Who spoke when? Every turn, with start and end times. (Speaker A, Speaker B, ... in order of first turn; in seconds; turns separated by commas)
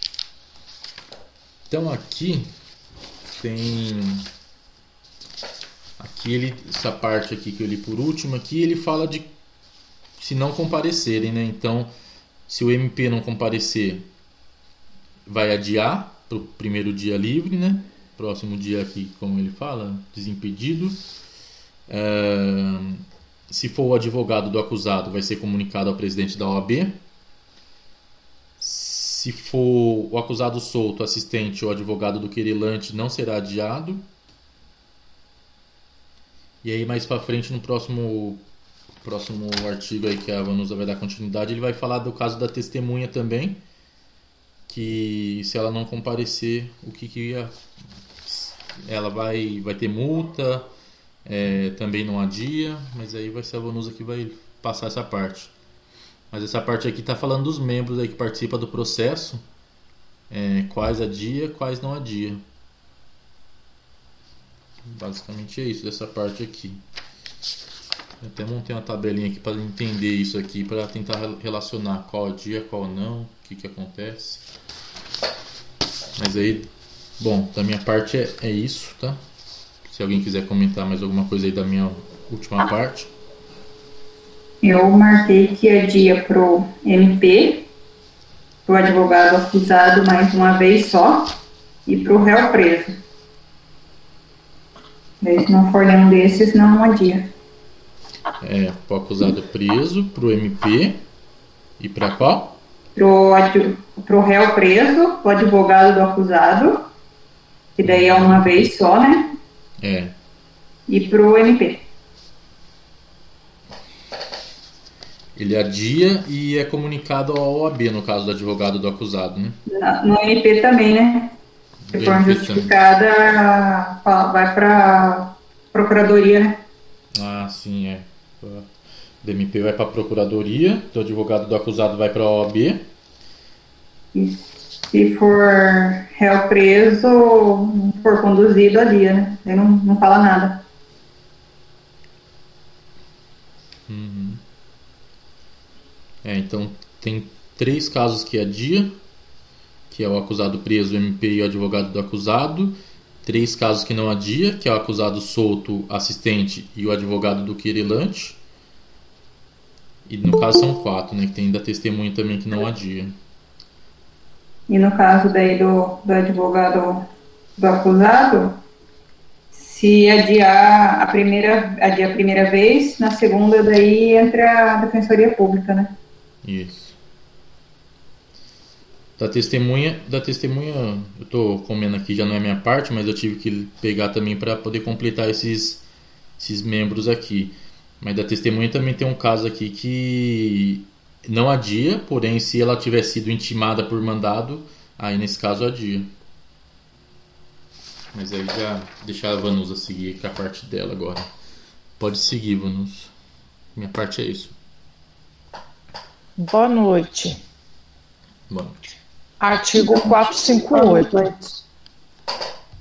Speaker A: 1.7-2.5, Speaker A: 3.4-4.3, Speaker A: 6.0-9.3, Speaker A: 10.2-11.9, Speaker A: 12.5-14.1, Speaker A: 15.3-21.0, Speaker A: 21.9-27.0, Speaker A: 28.6-34.1, Speaker A: 36.6-38.5, Speaker A: 39.0-43.6, Speaker A: 44.7-47.6, Speaker A: 48.2-50.7, Speaker A: 51.3-55.5, Speaker A: 56.3-59.4, Speaker A: 60.3-62.4, Speaker A: 64.8-66.8, Speaker A: 68.2-74.4, Speaker A: 76.2-79.2, Speaker A: 79.9-83.1, Speaker B: 84.6-87.7, Speaker B: 88.7-91.3, Speaker B: 91.9-93.0, Speaker B: 95.2-97.3, Speaker A: 98.4-101.1, Speaker A: 101.8-102.6, Speaker B: 103.0-106.9, Speaker B: 107.8-109.4, Speaker A: 107.8-108.7, Speaker A: 109.8-110.2, Speaker B: 110.9-111.9, Speaker A: 115.4-119.6, Speaker B: 119.7-121.4, Speaker A: 121.8-122.7, Speaker B: 121.9-126.6, Speaker A: 127.1-128.7, Speaker A: 129.2-132.9, Speaker B: 134.1-140.6, Speaker A: 143.9-144.4, Speaker A: 146.2-149.0, Speaker A: 149.9-158.4, Speaker A: 160.1-163.2, Speaker B: 164.7-168.6, Speaker B: 169.5-176.0, Speaker A: 176.4-177.0, Speaker A: 179.2-185.8, Speaker A: 186.4-196.1, Speaker A: 198.1-201.3, Speaker A: 202.0-203.1, Speaker A: 203.8-204.5, Speaker C: 206.4-207.4, Speaker A: 208.5-208.8, Speaker C: 209.4-211.2, Speaker B: 209.8-211.6